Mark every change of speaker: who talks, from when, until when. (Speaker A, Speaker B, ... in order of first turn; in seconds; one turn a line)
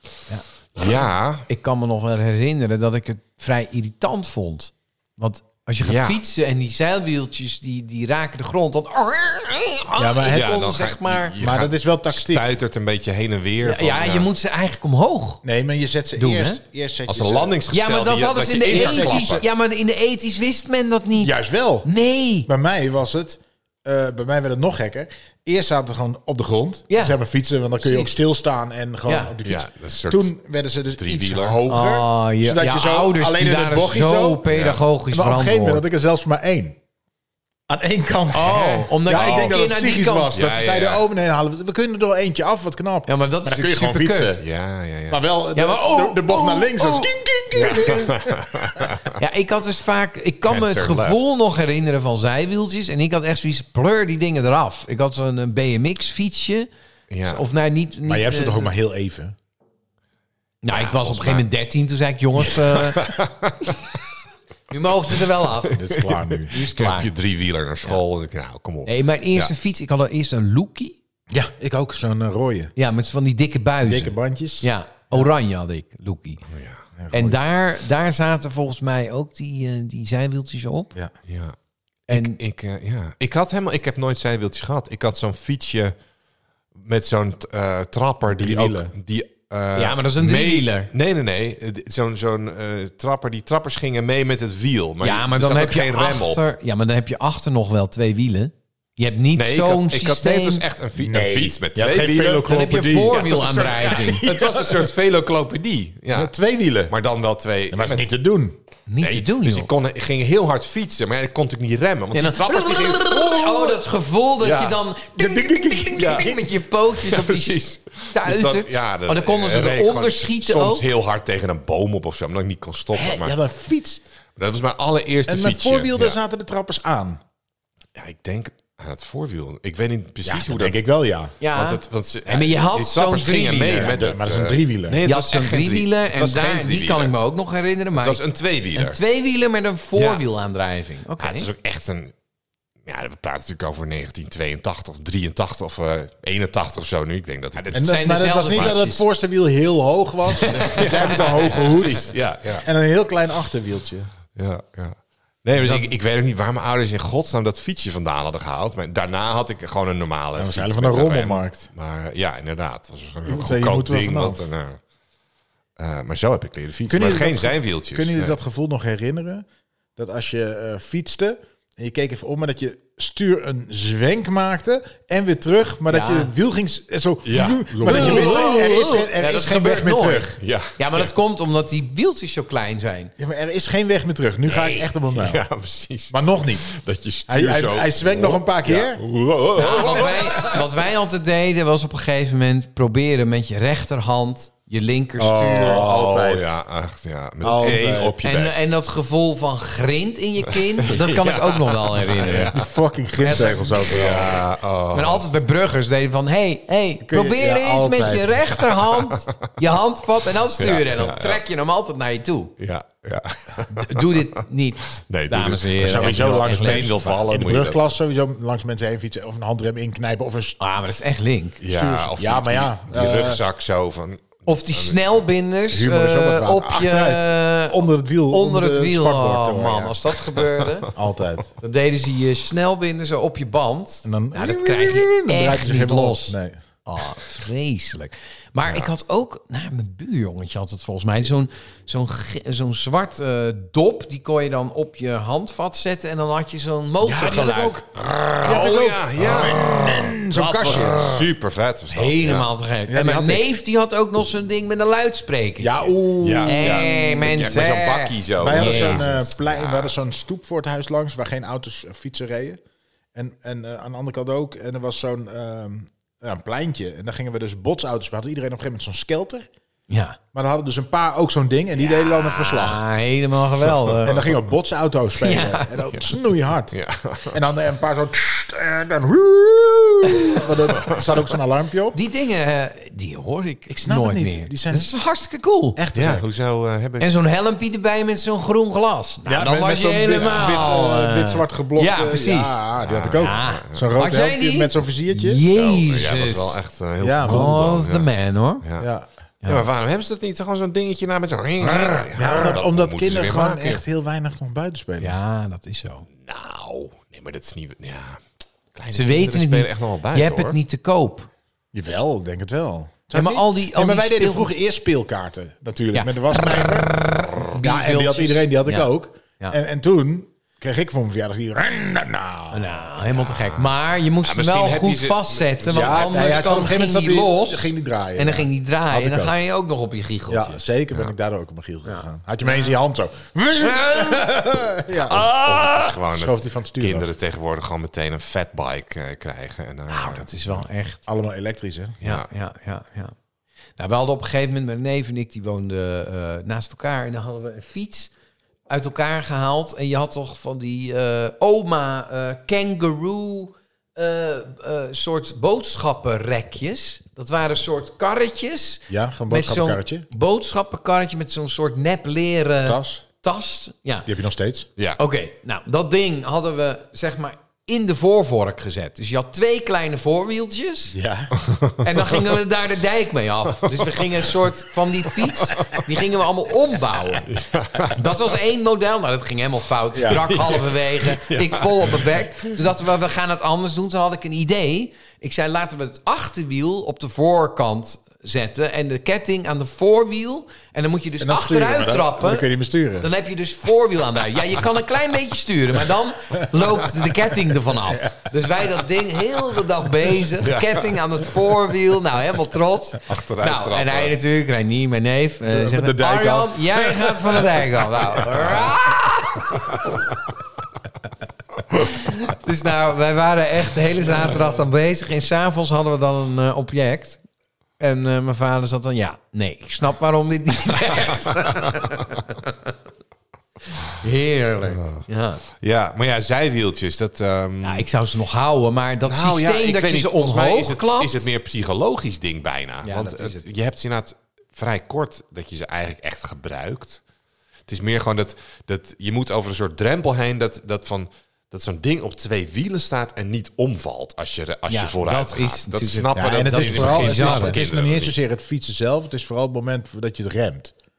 Speaker A: 0.8-1.5
Speaker B: 1.5-11.4
Speaker A: 5.8-6.2
Speaker C: 10.0-10.6
Speaker A: 10.2-14.3
Speaker C: 11.3-12.5
Speaker B: 13.6-15.4
Speaker C: 15.4-17.6
Speaker B: 16.1-16.6
Speaker A: 17.1-19.4
Speaker B: 17.7-22.5
Speaker C: 18.7-19.4
Speaker C: 21.2-21.9
Speaker C: 22.4-34.4
Speaker B: 26.9-27.1
Speaker B: 27.8-28.2
Speaker B: 29.1-29.3
Speaker A: 29.4-30.3
Speaker A: 31.0-31.6
Speaker B: 31.7-35.8
Speaker A: 34.5-34.8
Speaker C: 35.1-36.8
Speaker C: 37.7-44.4
Speaker B: 38.3-40.4
Speaker A: 39.1-39.6
Speaker A: 40.3-41.0
Speaker B: 43.1-44.4
Speaker A: 44.4-45.2
Speaker C: 45.1-48.8
Speaker B: 45.5-48.1
Speaker A: 47.6-49.2
Speaker B: 49.1-56.7
Speaker A: 50.5-51.2
Speaker A: 57.1-57.4
Speaker B: 57.2-58.7
Speaker C: 58.0-59.3
Speaker B: 60.6-63.1
Speaker A: 60.7-61.4
Speaker A: 62.5-63.8
Speaker B: 64.7-65.8
Speaker C: 65.7-66.5
Speaker A: 65.7-69.5
Speaker B: 66.5-67.1
Speaker B: 68.8-71.0
Speaker C: 71.3-72.7
Speaker B: 72.8-76.4
Speaker C: 73.8-75.3
Speaker A: 76.5-76.8
Speaker C: 77.0-77.4
Speaker B: 77.1-80.9
Speaker A: 81.3-81.5
Speaker A: 82.1-85.9
Speaker B: 82.1-82.4
Speaker A: 86.8-96.4
Speaker C: 88.2-88.9
Speaker B: 89.7-90.9
Speaker B: 95.0-100.6
Speaker A: 99.3-102.5
Speaker C: 101.0-104.9
Speaker B: 102.4-104.2
Speaker A: 103.1-106.3
Speaker C: 106.1-106.9
Speaker A: 106.9-108.0
Speaker C: 107.7-108.6
Speaker B: 108.9-109.7
Speaker A: 109.0-113.8
Speaker B: 112.1-120.8
Speaker A: 114.4-114.8
Speaker C: 115.2-116.5
Speaker A: 116.0-116.3
Speaker A: 116.9-123.4
Speaker C: 122.9-124.0
Speaker A: 124.4-126.2
Speaker C: 125.3-127.2
Speaker A: 128.0-130.8
Speaker C: 130.2-131.3
Speaker B: 131.4-134.0
Speaker A: 131.5-137.1
Speaker C: 133.8-135.0
Speaker B: 135.0-141.5
Speaker A: 137.9-139.0
Speaker A: 139.9-140.2
Speaker A: 141.2-142.1
Speaker A: 142.8-147.8
Speaker B: 147.5-149.0
Speaker C: 147.7-154.1
Speaker B: 150.3-151.6
Speaker A: 150.5-152.7
Speaker A: 154.3-164.8
Speaker B: 155.6-155.9
Speaker C: 160.3-161.7
Speaker C: 163.2-164.4
Speaker A: 165.8-168.3
Speaker C: 166.9-180.4
Speaker B: 175.9-176.3
Speaker A: 177.2-178.7
Speaker B: 177.8-183.1
Speaker A: 180.4-181.1
Speaker C: 183.2-185.4
Speaker B: 184.5-184.9
Speaker A: 185.1-190.6
Speaker C: 186.1-186.7
Speaker C: 187.3-189.0
Speaker B: 189.6-195.8
Speaker C: 189.8-190.4
Speaker C: 195.2-196.6
Speaker A: 195.6-198.6
Speaker C: 197.4-198.2
Speaker B: 197.6-202.6
Speaker A: 200.8-202.7
Speaker C: 202.5-204.5
Speaker B: 203.2-203.9
Speaker A: 203.8-205.2
Speaker B: 204.9-212.5
Speaker C: 207.0-208.5
Speaker A: 210.6-211.4
Speaker A: 212.6-214.4
Speaker B: 213.7-217.2
Speaker A: 214.9-217.8
Speaker C: 215.8-220.6
Speaker B: 220.6-221.6
Speaker A: 221.6-225.0
Speaker C: 221.6-223.4
Speaker B: 224.4-230.9
Speaker C: 225.7-230.0
Speaker C: 230.9-231.5
Speaker B: 231.6-247.8
Speaker C: 234.0-236.6
Speaker C: 247.0-251.3
Speaker A: 248.0-252.5
Speaker B: 251.9-259.0
Speaker C: 252.9-253.5
Speaker C: 255.6-256.9
Speaker A: 256.2-259.9
Speaker C: 258.4-262.6
Speaker C: 263.1-269.5
Speaker B: 269.9-270.2
Speaker C: 270.3-272.8
Speaker B: 271.8-274.3
Speaker C: 274.0-276.8
Speaker B: 275.2-275.8
Speaker A: 276.7-277.4
Speaker C: 277.3-282.0
Speaker B: 280.1-280.4
Speaker B: 281.9-285.8
Speaker C: 283.7-284.9
Speaker C: 285.8-286.2
Speaker A: 285.9-287.1
Speaker B: 287.0-292.6
Speaker C: 289.2-295.4
Speaker A: 292.8-293.9
Speaker B: 293.1-296.6
Speaker A: 295.5-298.1
Speaker C: 297.0-297.6
Speaker B: 297.2-298.6
Speaker A: 298.6-298.9
Speaker C: 298.8-299.1
Speaker A: 299.4-303.8
Speaker C: 301.7-305.1
Speaker B: 305.0-306.1
Speaker A: 306.2-308.2
Speaker A: 308.7-310.6
Speaker B: 308.9-311.3
Speaker C: 311.7-316.9
Speaker B: 313.1-314.5
Speaker B: 317.4-319.6
Speaker C: 317.5-322.8
Speaker B: 322.5-330.6
Speaker A: 323.1-326.6
Speaker C: 325.7-329.3
Speaker C: 330.3-335.3
Speaker B: 331.8-332.8
Speaker B: 333.6-334.3
Speaker B: 335.1-335.9
Speaker A: 335.1-340.6
Speaker C: 336.1-337.1
Speaker B: 339.9-341.0
Speaker C: 341.1-342.0
Speaker A: 342.0-342.3
Speaker B: 342.0-343.1
Speaker B: 343.8-348.1
Speaker B: 348.7-364.1
Speaker C: 358.9-360.1
Speaker C: 362.6-363.0
Speaker C: 364.1-364.7
Speaker B: 365.0-371.0
Speaker C: 370.9-371.3
Speaker A: 371.4-372.2
Speaker B: 371.8-377.3
Speaker A: 373.6-374.0
Speaker A: 375.4-375.8
Speaker A: 377.2-378.2
Speaker B: 377.9-392.5
Speaker C: 379.9-380.2
Speaker A: 380.0-382.5
Speaker C: 391.2-393.1
Speaker B: 393.0-409.9
Speaker C: 397.9-398.3
Speaker A: 400.4-401.2
Speaker A: 403.0-404.2
Speaker C: 405.5-407.3
Speaker A: 408.3-408.7
Speaker B: 411.7-417.2
Speaker B: 417.8-422.7
Speaker B: 423.9-425.4
Speaker A: 424.7-427.9
Speaker B: 427.6-431.2
Speaker A: 429.1-437.0
Speaker B: 432.8-433.4
Speaker A: 437.7-448.2
Speaker B: 444.7-447.6
Speaker C: 446.1-450.7